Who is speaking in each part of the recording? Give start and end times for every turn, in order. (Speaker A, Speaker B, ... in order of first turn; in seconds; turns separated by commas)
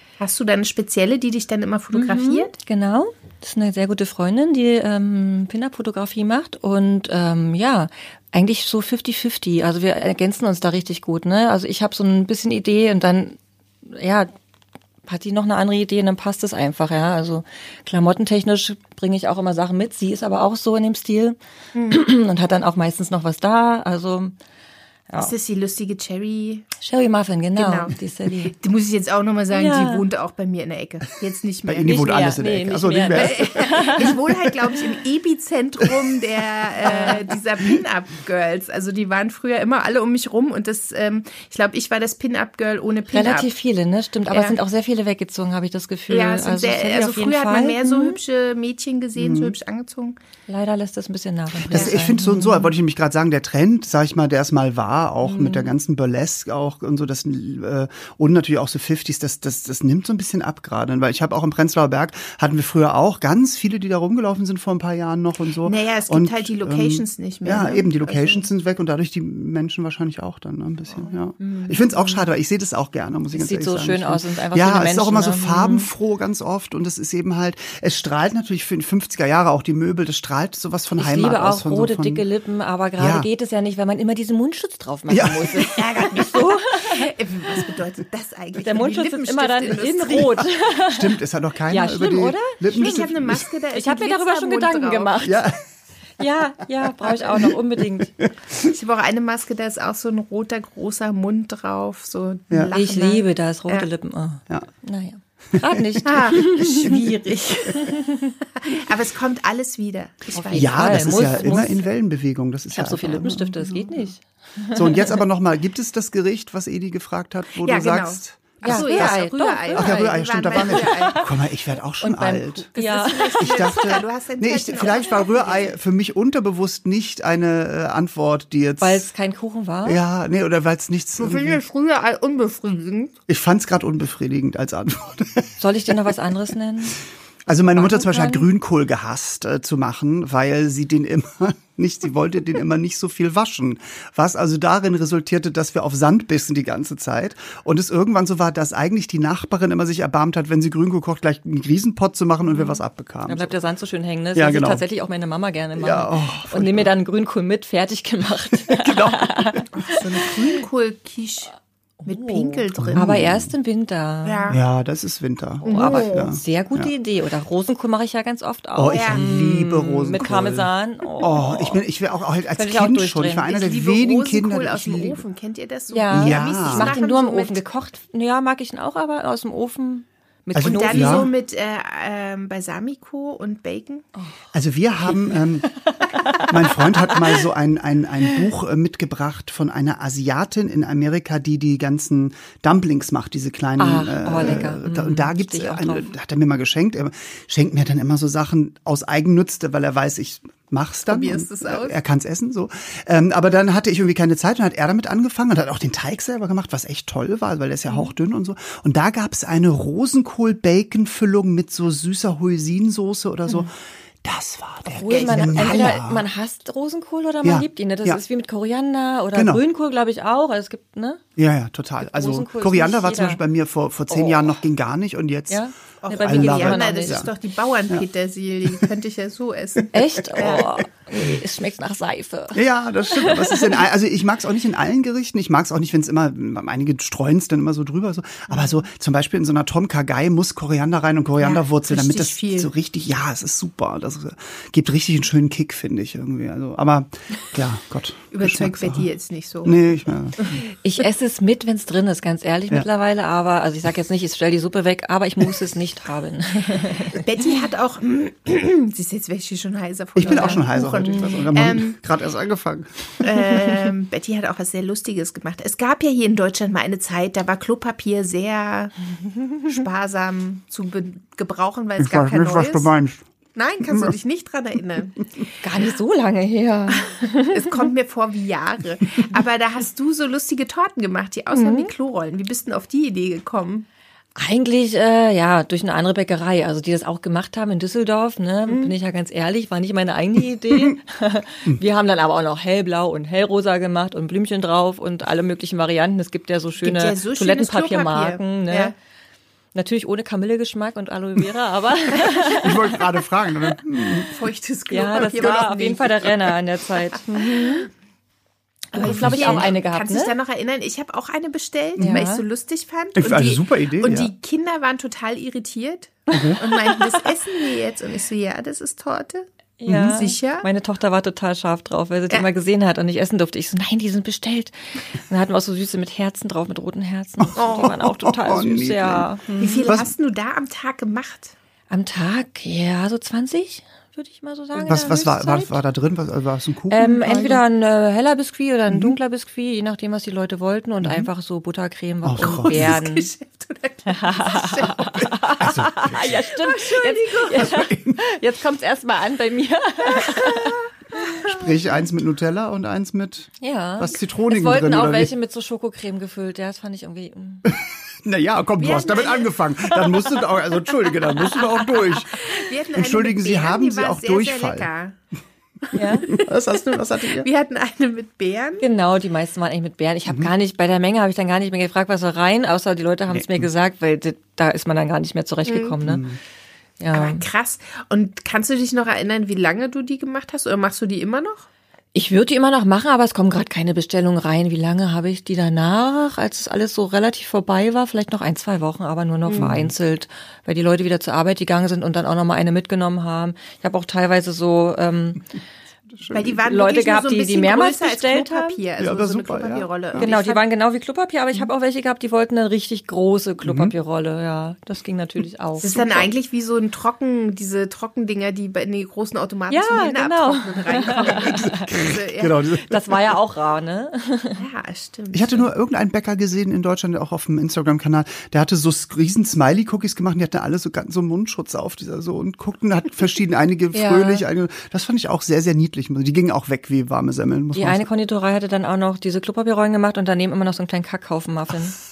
Speaker A: 0.2-2.5, Speaker B: 1.9-14.3, Speaker B: 15.0-21.4, Speaker A: 21.7-22.0, Speaker B: 21.9-24.3, Speaker A: 25.2-26.7, Speaker B: 26.8-28.5, Speaker A: 27.6-32.1, Speaker B: 29.5-30.0, Speaker C: 31.6-34.5, Speaker B: 31.8-34.2, Speaker A: 33.1-43.5, Speaker B: 36.8-37.2, Speaker B: 43.1-48.2, Speaker A: 44.3-44.6, Speaker A: 46.1-50.2, Speaker C: 49.2-49.5, Speaker B: 50.5-52.7, Speaker A: 51.7-52.0, Speaker C: 51.7-82.2, Speaker B: 55.2-55.7, Speaker A: 65.6-68.5, Speaker B: 71.4-72.2, Speaker B: 73.3-75.9, Speaker B: 81.0-87.1, Speaker C: 83.0-83.3, Speaker C: 85.1-85.7, Speaker A: 85.6-90.5, Speaker B: 88.6-91.2, Speaker C: 90.8-93.5, Speaker B: 91.7-93.1, Speaker A: 92.7-95.2, Speaker B: 93.7-95.5, Speaker C: 95.2-95.6, Speaker B: 96.2-98.1, Speaker C: 97.0-98.7, Speaker A: 98.6-103.9, Speaker B: 102.7-108.3, Speaker C: 105.5-107.0, Speaker A: 106.0-108.0, Speaker A: 108.6-111.6, Speaker B: 110.3-111.8, Speaker C: 110.5-114.0, Speaker B: 112.7-115.2, Speaker C: 114.7-119.2, Speaker A: 117.6-121.2, Speaker B: 118.6-121.3, Speaker C: 119.7-122.7, Speaker B: 122.0-123.8, Speaker A: 122.7-125.7, Speaker C: 123.4-129.1, Speaker B: 128.8-130.0, Speaker C: 129.8-131.6, Speaker A: 131.2-133.1, Speaker C: 133.3-136.1, Speaker B: 135.6-137.0, Speaker C: 137.4-153.5, Speaker B: 137.7-138.5, Speaker B: 152.6-160.0, Speaker C: 154.3-154.8, Speaker C: 155.8-156.9, Speaker C: 158.6-160.4, Speaker A: 159.8-161.5, Speaker B: 162.0-164.6, Speaker A: 162.1-163.2, Speaker C: 162.7-163.5, Speaker A: 164.2-164.6, Speaker C: 164.5-166.9, Speaker A: 165.6-166.3, Speaker B: 165.6-171.8, Speaker C: 168.8-175.2, Speaker A: 168.9-169.2, Speaker B: 172.5-173.5, Speaker A: 173.5-177.6, Speaker B: 175.9-181.3, Speaker C: 176.1-176.9, Speaker C: 180.5-181.3, Speaker A: 180.6-184.0, Speaker C: 184.5-185.7, Speaker B: 185.0-187.4, Speaker C: 186.4-216.2, Speaker B: 193.8-196.1, Speaker A: 201.1-201.9, Speaker B: 214.9-221.2, Speaker A: 215.0-216.0, Speaker C: 217.4-218.2, Speaker C: 219.3-219.6, Speaker C: 221.4-227.3, Speaker B: 222.0-223.4, Speaker B: 224.1-224.6, Speaker B: 225.5-227.3, Speaker A: 226.0-230.7, Speaker B: 229.9-233.8, Speaker C: 230.3-230.7, Speaker C: 232.5-249.1, Speaker A: 241.4-242.7, Speaker A: 248.3-249.8, Speaker C: 249.6-250.6, Speaker B: 250.7-257.3, Speaker A: 257.1-262.0, Speaker C: 260.1-263.1, Speaker B: 260.2-261.5, Speaker A: 263.2-268.9, Speaker A: 269.6-272.9, Speaker C: 272.0-273.2, Speaker A: 273.5-275.3, Speaker C: 273.9-274.1, Speaker B: 275.6-277.9, Speaker A: 276.9-283.9, Speaker B: 281.5-281.9, Speaker B: 284.4-298.9, Speaker A: 288.7-288.9, Speaker C: 290.7-290.9, Speaker A: 296.8-298.9, Speaker B: 299.7-303.0, Speaker C: 302.5-304.3, Speaker A: 304.2-306.4, Speaker B: 304.9-307.9, Speaker B: 308.9-310.3, Speaker A: 308.9-320.7, Speaker C: 308.9-309.7, Speaker B: 312.0-312.4, Speaker C: 313.1-314.3, Speaker C: 316.3-316.6, Speaker B: 319.8-329.9, Speaker C: 319.9-320.2, Speaker C: 327.4-329.3, Speaker A: 327.6-327.9, Speaker A: 329.6-331.5, Speaker B: 331.9-335.8, Speaker C: 334.8-337.6, Speaker B: 336.9-343.3, Speaker C: 338.9-339.1, Speaker C: 341.0-341.3, Speaker C: 342.2-343.0, Speaker A: 342.4-345.2, Speaker B: 344.1-351.4, Speaker C: 345.2-346.5, Speaker A: 346.6-347.6, Speaker C: 347.5-348.2, Speaker A: 350.1-350.8, Speaker C: 351.4-355.3, Speaker B: 353.6-357.7, Speaker C: 357.6-364.9, Speaker A: 358.8-359.6, Speaker A: 361.9-365.1, Speaker A: 365.9-368.8, Speaker B: 365.9-366.3, Speaker C: 366.3-367.5, Speaker B: 368.8-376.3, Speaker C: 370.3-370.5, Speaker C: 373.3-373.7, Speaker A: 375.6-375.9, Speaker C: 376.0-376.4, Speaker B: 377.0-377.4, Speaker A: 377.1-381.7, Speaker B: 382.1-395.4, Speaker A: 389.4-389.7, Speaker C: 389.6-389.9, Speaker C: 396.1-396.6, Speaker A: 396.3-400.6, Speaker B: 396.6-398.8, Speaker C: 399.0-400.3, Speaker B: 400.2-406.3, Speaker C: 403.6-403.9, Speaker A: 405.8-412.6, Speaker B: 409.7-411.9, Speaker C: 411.3-413.3, Speaker B: 412.8-414.6, Speaker A: 414.6-415.6, Speaker C: 415.3-428.1, Speaker B: 423.9-424.4, Speaker B: 427.7-432.0